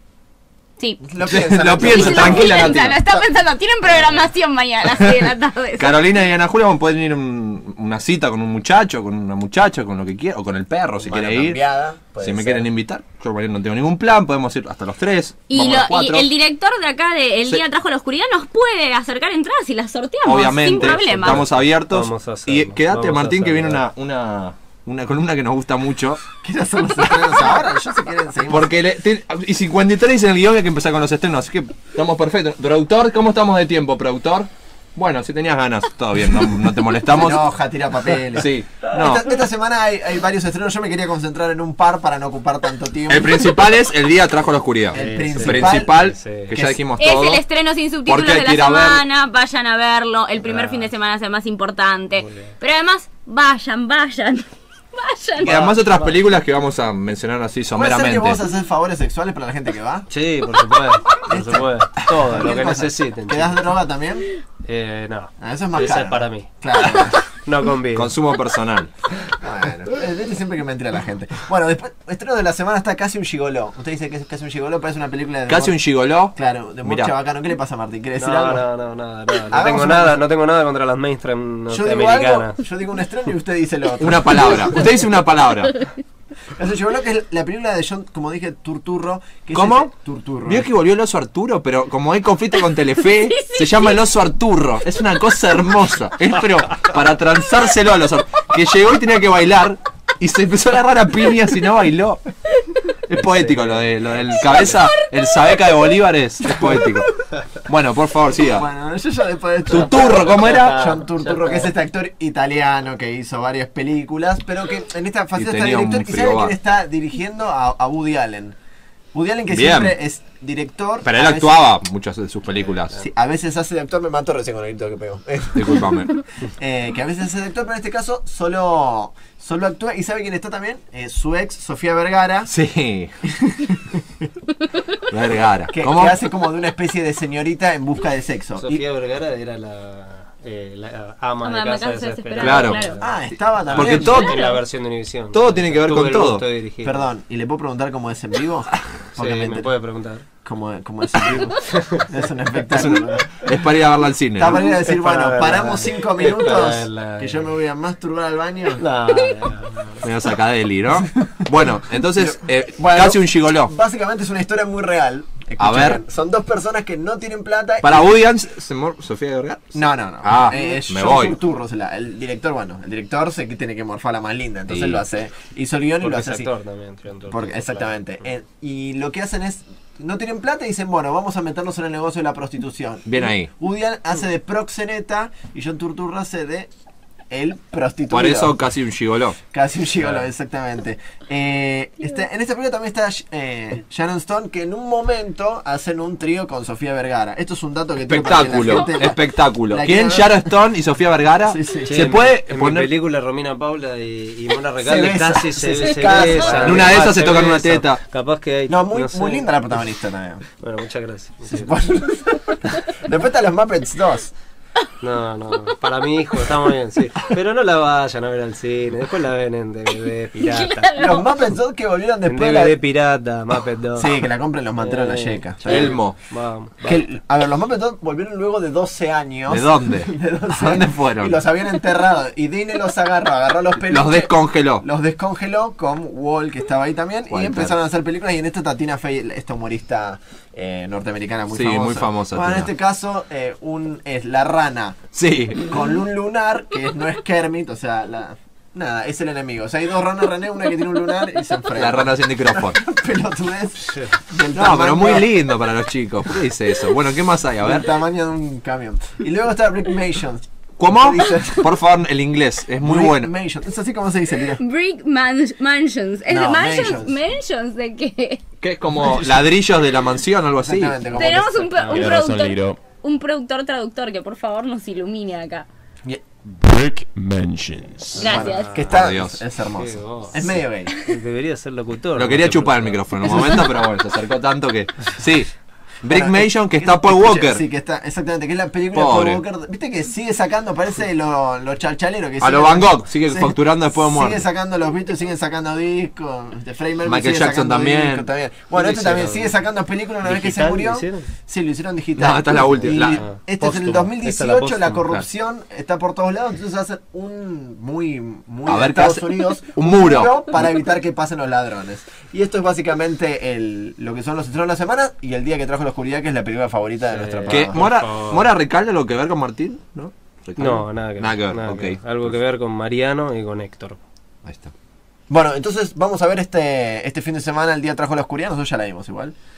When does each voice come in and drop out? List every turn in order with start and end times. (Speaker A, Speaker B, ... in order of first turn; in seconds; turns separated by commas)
Speaker A: 1.0-3.2, Speaker B: 1.2-3.0, Speaker C: 1.8-5.9, Speaker B: 5.8-11.6, Speaker A: 11.0-12.7, Speaker B: 12.2-16.3, Speaker C: 15.5-21.4, Speaker B: 20.2-26.2, Speaker D: 21.9-23.8, Speaker A: 26.4-28.7, Speaker B: 28.5-37.4, Speaker A: 37.1-43.5, Speaker B: 38.4-39.2, Speaker B: 43.1-47.4, Speaker D: 44.9-46.7, Speaker A: 44.9-45.9, Speaker C: 47.0-55.5, Speaker B: 48.0-49.0, Speaker D: 50.4-50.9, Speaker D: 52.1-52.5, Speaker A: 55.4-56.1, Speaker B: 55.4-58.4, Speaker A: 57.7-60.1, Speaker D: 60.1-63.7, Speaker A: 61.2-64.2, Speaker D: 64.6-66.5, Speaker A: 65.4-67.2, Speaker D: 67.3-68.1, Speaker B: 67.9-68.9, Speaker A: 69.4-75.8, Speaker B: 75.5-77.1, Speaker A: 76.3-78.7, Speaker D: 78.2-82.6, Speaker A: 79.5-80.2, Speaker A: 81.7-84.8, Speaker B: 84.0-85.8, Speaker A: 86.5-90.7, Speaker B: 89.5-89.9, Speaker B: 90.4-102.2, Speaker C: 93.4-93.9, Speaker B: 103.1-107.1, Speaker D: 103.1-103.9, Speaker B: 107.7-108.7, Speaker A: 108.4-118.5, Speaker B: 109.7-110.8, Speaker D: 110.7-111.7, Speaker B: 115.3-116.5, Speaker A: 119.1-121.7, Speaker B: 119.5-119.9, Speaker B: 121.0-123.0, Speaker A: 122.9-125.9, Speaker B: 125.5-126.2, Speaker A: 126.6-132.5, Speaker B: 132.5-133.1, Speaker A: 133.3-133.8, Speaker B: 135.1-136.2, Speaker A: 135.7-138.8, Speaker D: 138.5-147.1, Speaker C: 141.4-143.0, Speaker B: 142.4-142.8, Speaker A: 143.0-144.3, Speaker B: 143.7-144.4, Speaker C: 144.1-144.6, Speaker B: 145.3-146.5, Speaker A: 146.8-149.7, Speaker D: 149.2-150.2, Speaker A: 150.4-153.3, Speaker D: 151.8-152.0, Speaker B: 152.7-154.6, Speaker A: 154.4-159.4, Speaker D: 154.5-157.5, Speaker D: 158.8-159.9, Speaker B: 160.0-163.7, Speaker A: 162.2-168.1, Speaker B: 165.6-166.0, Speaker B: 167.8-171.3, Speaker A: 169.7-176.5, Speaker B: 174.7-175.0, Speaker D: 176.0-178.2, Speaker A: 177.3-186.7, Speaker B: 183.1-183.5, Speaker A: 187.3-188.5, Speaker B: 188.1-189.4, Speaker A: 189.5-200.5, Speaker D: 190.0-190.2, Speaker B: 198.0-202.9, Speaker A: 201.4-202.1, Speaker D: 201.9-209.8, Speaker A: 204.8-207.3, Speaker B: 206.2-208.0, Speaker A: 208.7-210.4, Speaker D: 210.6-211.8, Speaker A: 211.4-214.3, Speaker D: 215.0-221.1, Speaker C: 220.4-221.3, Speaker A: 220.9-222.8, Speaker D: 222.3-227.1, Speaker A: 223.9-226.0, Speaker B: 225.6-226.2, Speaker A: 226.8-255.3, Speaker B: 229.5-231.4, Speaker B: 233.8-234.8, Speaker B: 237.3-237.7, Speaker B: 241.5-242.7, Speaker B: 245.1-245.6, Speaker B: 251.8-252.8, Speaker D: 253.9-254.1, Speaker B: 254.5-257.9, Speaker A: 257.6-261.7, Speaker B: 260.8-263.3, Speaker A: 262.8-264.6, Speaker C: 264.6-268.4, Speaker A: 266.3-267.1, Speaker B: 268.6-271.0, Speaker A: 269.0-269.3, Speaker A: 270.6-271.7, Speaker C: 271.1-275.6, Speaker D: 271.7-272.0, Speaker E: 271.8-272.8, Speaker E: 276.4-278.5, Speaker C: 278.2-278.7, Speaker A: 278.2-281.0, Speaker D: 278.2-278.9, Speaker B: 278.9-279.4, Speaker D: 279.7-283.6, Speaker B: 282.1-285.5, Speaker A: 283.3-283.8, Speaker B: 286.0-287.6, Speaker A: 286.1-317.8, Speaker B: 288.9-289.4, Speaker B: 292.4-294.4, Speaker B: 297.1-298.3, Speaker D: 298.7-299.5, Speaker D: 300.2-301.3, Speaker B: 302.2-303.2, Speaker D: 302.7-305.1, Speaker B: 308.7-310.5, Speaker D: 317.0-318.4, Speaker B: 317.5-322.4, Speaker D: 320.6-324.0, Speaker B: 324.4-324.7, Speaker A: 325.3-329.3